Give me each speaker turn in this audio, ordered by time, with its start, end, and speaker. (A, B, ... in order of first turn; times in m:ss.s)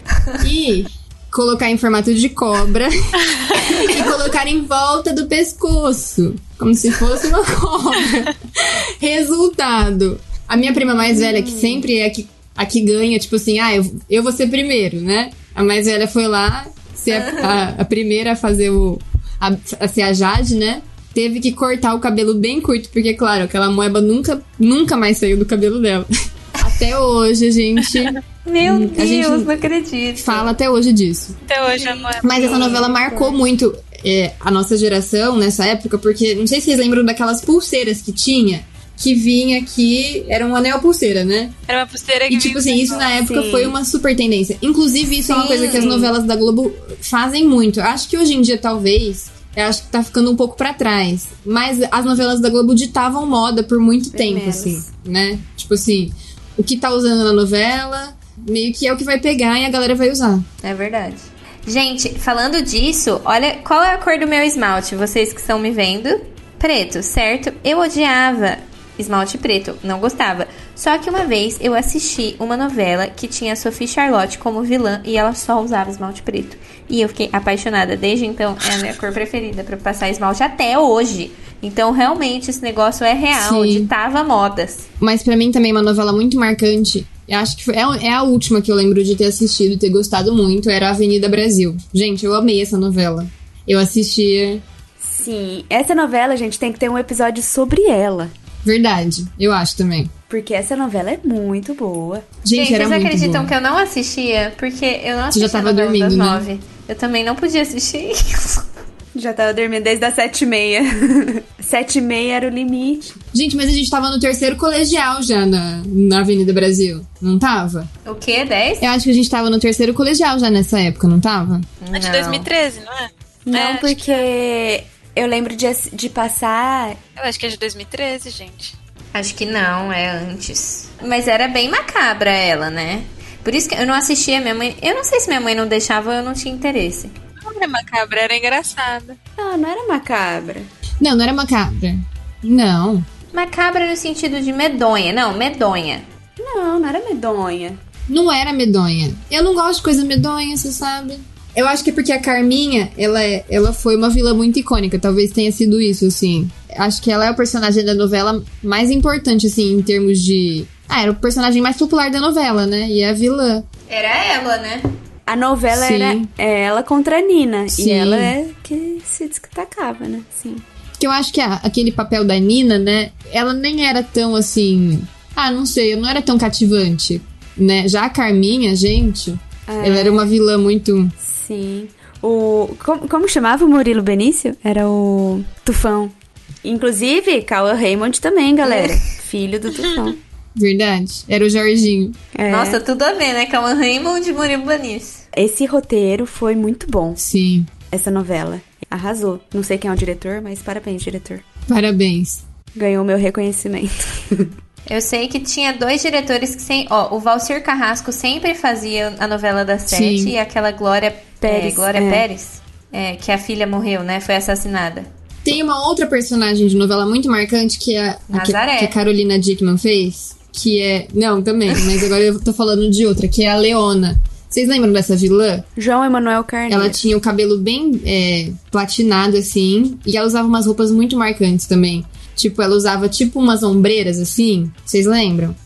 0:00.4-0:29.5 A
0:10.7-0:11.9 B
0:17.1-0:17.6 C
0:28.4-0:30.5 C
0:30.2-0:31.4 A
0:31.5-0:32.8 D
0:31.7-0:33.3 B
0:32.2-0:41.5 A
0:32.3-0:32.8 C
0:41.7-0:43.1 D
0:42.3-1:00.5 A
0:43.2-0:43.8 B
0:45.2-0:46.1 C
0:54.1-0:54.9 B
1:00.6-1:24.9 C
1:23.3-1:23.9 A
1:25.0-1:34.6 A
1:35.0-1:38.3 B
1:38.6-1:40.1 A
1:40.3-1:42.2 B
1:42.4-1:43.5 A
1:42.5-1:48.6 C
1:45.3-1:46.4 A
1:49.1-1:53.2 B
1:53.3-1:57.9 A
1:58.0-1:58.9 C
1:58.8-2:01.7 A
2:01.8-2:02.5 C
2:01.9-2:04.3 D
2:03.4-2:07.0 B
2:07.2-2:08.7 D
2:09.1-2:17.1 C
2:17.4-2:19.2 D
2:19.4-2:20.7 B
2:21.0-2:23.0 A
2:23.3-2:26.0 C
2:26.4-2:27.8 B
2:28.1-2:43.6 A
2:43.9-2:44.9 C
2:45.3-2:50.6 B
2:45.7-2:46.3 A
2:47.7-2:48.3 A
2:51.0-3:01.1 A
2:59.7-3:00.3 B
3:01.2-3:10.2 B
3:08.6-3:09.0 C
3:10.6-3:12.2 A
3:12.3-3:12.8 B
3:12.5-3:15.2 C
3:15.3-3:17.2 B
3:17.2-3:17.7 A
3:17.9-3:21.4 B
3:21.7-3:22.4 A
3:22.7-3:24.5 B
3:24.9-3:35.1 C
3:29.9-3:30.3 A
3:31.4-3:32.2 B
3:35.4-3:45.6 A
3:38.3-3:38.9 C
3:45.8-3:47.0 B
3:46.7-3:55.6 A